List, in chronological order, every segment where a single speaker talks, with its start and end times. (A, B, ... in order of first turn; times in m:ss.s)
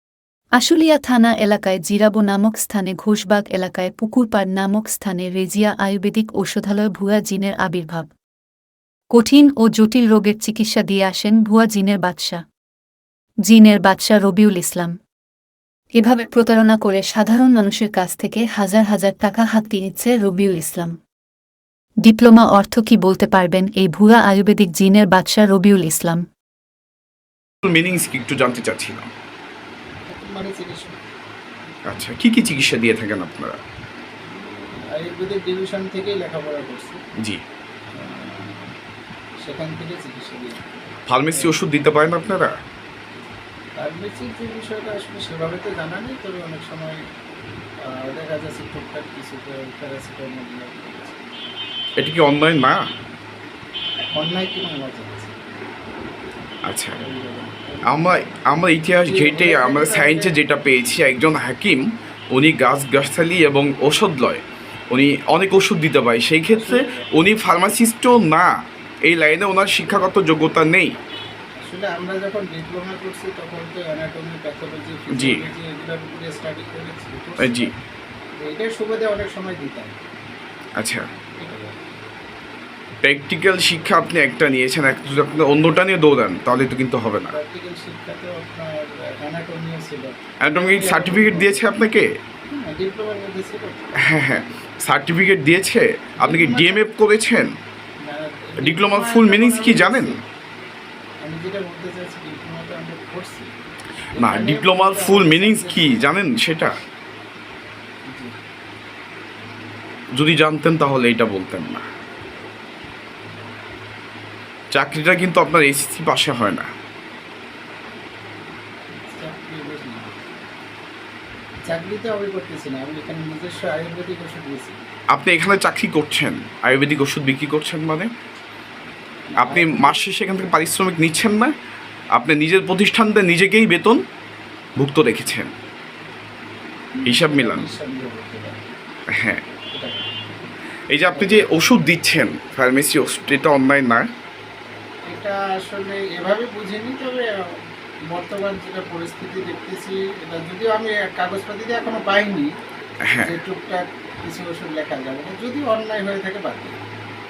0:00.5-0:08.1 A
0:09.1-0:12.4 A
0:13.5-0:15.0 A
0:15.9-0:21.0 A
0:22.0-0:26.2 A
0:27.6-0:29.1 B
0:30.1-0:31.0 C
0:31.9-0:33.6 B
0:34.2-0:37.0 C
0:38.0-0:38.7 C
0:39.4-0:40.6 C
0:41.1-0:42.6 B
0:41.3-0:41.6 C
0:43.8-0:47.0 C
0:47.8-0:51.2 C
0:52.0-0:52.8 B
0:54.1-0:55.3 C
0:56.6-0:57.0 B
0:57.0-0:58.0 C
0:57.8-1:08.5 B
0:59.0-1:00.4 C
1:06.5-1:07.0 C
1:09.0-1:10.9 B
1:11.6-1:17.7 C
1:15.1-1:15.4 B
1:17.4-1:17.7 B
1:18.4-1:19.9 C
1:20.8-1:21.1 B
1:21.4-1:21.7 C
1:23.0-1:27.3 B
1:27.3-1:31.6 C
1:30.4-1:32.1 B
1:32.5-1:33.9 C
1:34.0-1:37.5 B
1:36.2-1:36.8 C
1:38.0-1:40.2 C
1:38.6-1:40.2 B
1:41.2-1:43.5 C
1:44.1-1:46.0 C
1:44.2-1:46.8 B
1:50.1-1:51.8 B
1:54.7-1:56.7 B
1:58.9-2:00.2 C
2:01.6-2:04.8 C
2:05.1-2:08.1 B
2:09.3-2:10.0 C
2:09.4-2:11.5 B
2:12.2-2:14.0 B
2:14.8-2:15.5 B
2:16.9-2:18.6 C
2:17.0-2:17.7 B
2:19.1-2:19.4 B
2:19.7-2:20.2 C
2:20.9-2:24.1 B
2:21.1-2:21.5 C
2:25.1-2:27.6 C
2:28.1-2:32.5 C
2:33.0-2:33.3 B
2:33.2-2:36.8 C